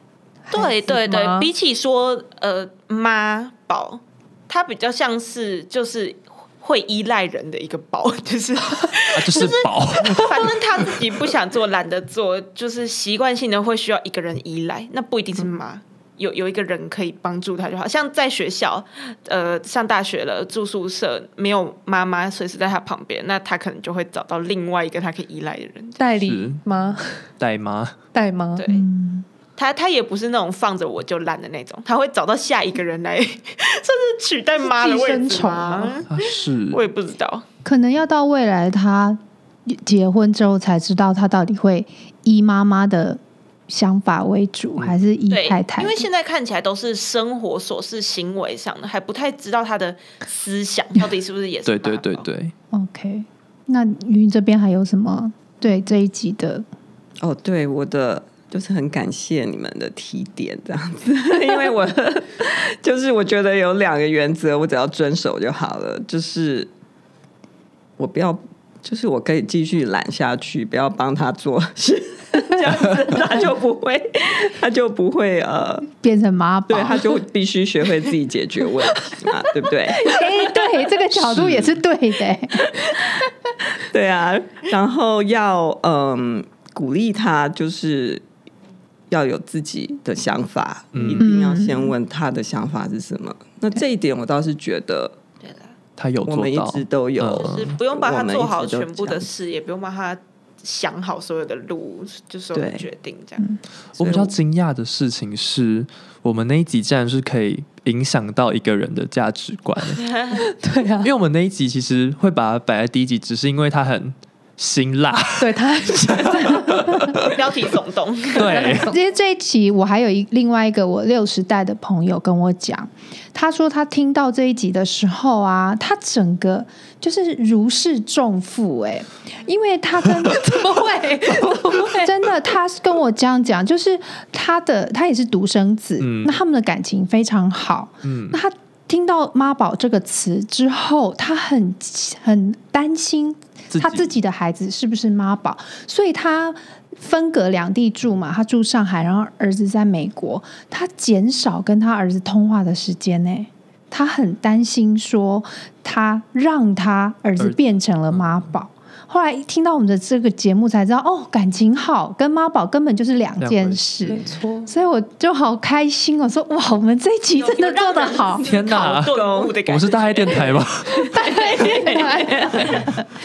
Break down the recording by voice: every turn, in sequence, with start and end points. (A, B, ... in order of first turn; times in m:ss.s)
0:00.5-0:01.5 A
0:00.5-0:26.0 B
0:09.1-0:10.7 C
0:26.0-0:27.2 A
0:26.2-0:26.6 C
0:27.4-0:28.0 C
0:28.1-0:28.6 A
0:28.6-0:28.8 B
0:28.7-0:29.2 D
0:29.6-0:37.4 B
0:34.6-0:36.0 A
0:36.1-0:36.8 C
0:37.6-0:46.1 D
0:45.3-0:52.2 B
0:51.6-0:52.5 C
0:52.7-0:56.6 D
0:57.2-1:06.7 E
1:08.0-1:15.9 E
1:16.0-1:17.2 D
1:16.7-1:20.2 E
1:20.0-1:22.8 D
1:21.2-1:21.8 C
1:22.6-1:23.0 E
1:23.8-1:28.2 E
1:29.1-1:35.1 E
1:30.9-1:31.3 C
1:31.1-1:32.0 D
1:35.4-1:35.7 B
1:36.0-1:37.8 C
1:36.2-1:39.3 E
1:37.4-1:43.5 B
1:42.5-1:42.8 E
1:44.0-1:50.0 C
1:44.0-1:44.3 E
1:50.0-1:50.4 B
1:50.4-1:51.1 A
1:51.0-1:55.6 C
1:55.4-1:57.2 A
1:56.1-1:57.4 C
1:57.2-1:58.7 B
1:58.4-1:58.9 C
1:58.4-1:59.0 A
1:58.9-2:48.4 D
2:10.2-2:12.1 A
2:16.0-2:16.4 C
2:18.0-2:18.4 C
2:23.7-2:24.1 C
2:38.1-2:38.4 C
2:43.4-2:44.2 C
2:44.1-2:44.7 A
2:47.4-2:52.9 B
2:47.7-2:48.2 A
2:48.4-2:51.1 C
2:49.1-2:49.6 E
2:51.2-2:52.8 E
2:51.2-2:53.0 D
2:51.3-2:52.4 A